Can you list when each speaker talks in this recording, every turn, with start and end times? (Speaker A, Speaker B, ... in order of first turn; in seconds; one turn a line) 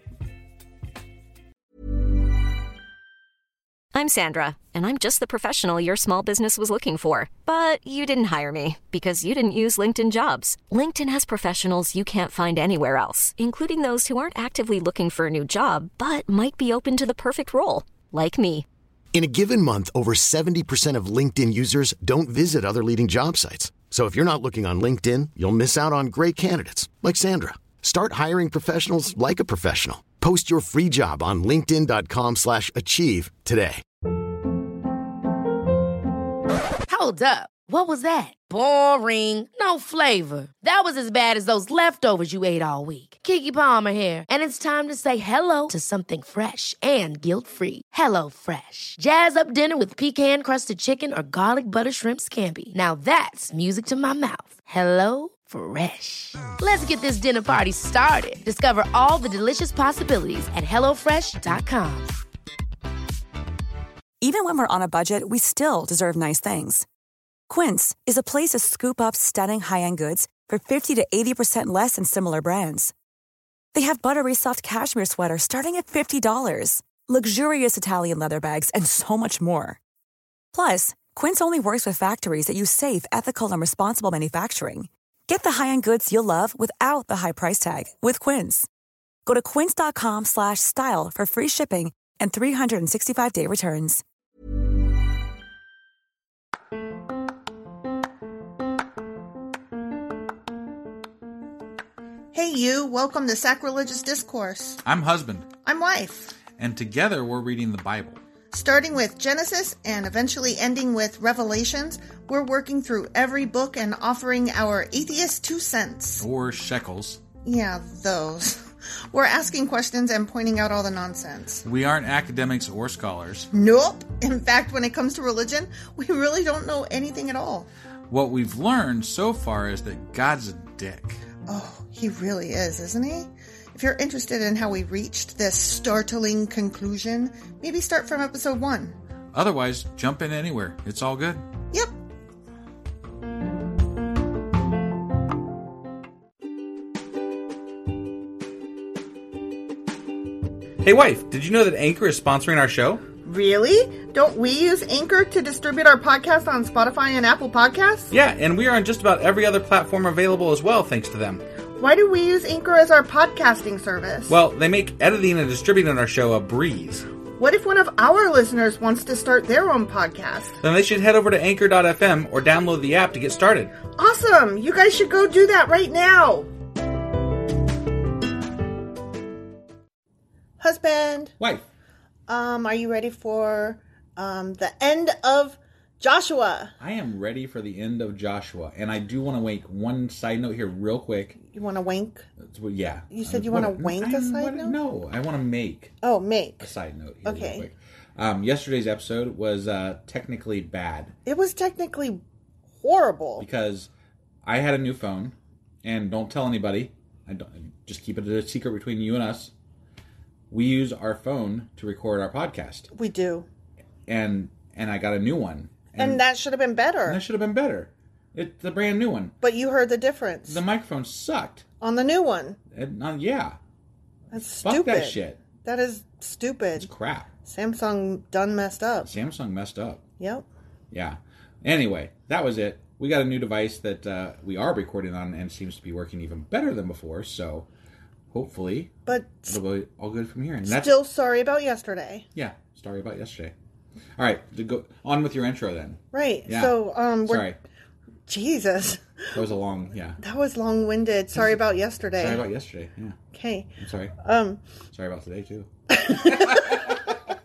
Speaker A: 3.9-18.7
Speaker B: 19.1-33.8
Speaker C: 36.9-62.1
Speaker D: 64.2-66.9
Speaker D: 67.5-72.9
Speaker D: 73.7-79.8
Speaker D: 80.5-88.7
Speaker D: 89.3-94.0
Speaker E: 102.3-104.8
Speaker F: 104.8-105.5
Speaker E: 105.7-106.4
Speaker F: 106.6-108.2
Speaker E: 108.5-116.3
Speaker F: 116.2-117.2
Speaker E: 117.5-121.7
Speaker F: 121.6-123.5
Speaker E: 123.5-127.7
Speaker F: 128.1-131.2
Speaker E: 131.5-139.0
Speaker F: 139.3-141.4
Speaker F: 150.8-153.0
Speaker E: 153.2-158.1
Speaker F: 158.1-161.4
Speaker E: 161.8-164.3
Speaker F: 164.3-167.1
Speaker E: 167.4-170.6
Speaker F: 170.6-173.7
Speaker E: 174.0-176.5
Speaker E: 180.6-181.3
Speaker F: 181.4-181.7
Speaker E: 182.3-186.7
Speaker F: 186.8-191.4
Speaker E: 191.5-192.3
Speaker F: 192.4-195.9
Speaker E: 193.1-194.8
Speaker E: 196.0-196.7
Speaker F: 196.6-201.1
Speaker E: 197.2-197.7
Speaker E: 201.3-202.2
Speaker E: 202.8-203.5
Speaker F: 203.4-203.9
Speaker F: 204.4-209.5
Speaker F: 210.5-212.9
Speaker E: 212.9-213.5
Speaker F: 214.1-216.2
Speaker E: 216.0-217.2
Speaker F: 217.1-219.3
Speaker E: 219.4-220.6
Speaker F: 220.5-221.7
Speaker E: 221.8-222.6
Speaker F: 222.7-223.6
Speaker E: 224.3-226.9
Speaker F: 224.6-225.4
Speaker F: 226.8-227.3
Speaker E: 227.4-229.1
Speaker F: 229.0-230.0
Speaker E: 230.2-230.5
Speaker F: 230.9-237.7
Speaker F: 238.3-238.9
Speaker E: 239.1-239.6
Speaker F: 239.5-240.9
Speaker E: 240.6-242.3
Speaker F: 242.3-243.5
Speaker F: 244.2-247.6
Speaker E: 246.1-247.5
Speaker E: 248.3-249.4
Speaker F: 249.3-250.2
Speaker E: 250.2-252.4
Speaker F: 252.2-253.2
Speaker E: 253.3-254.6
Speaker F: 253.8-254.2
Speaker F: 254.9-257.2
Speaker E: 255.9-257.1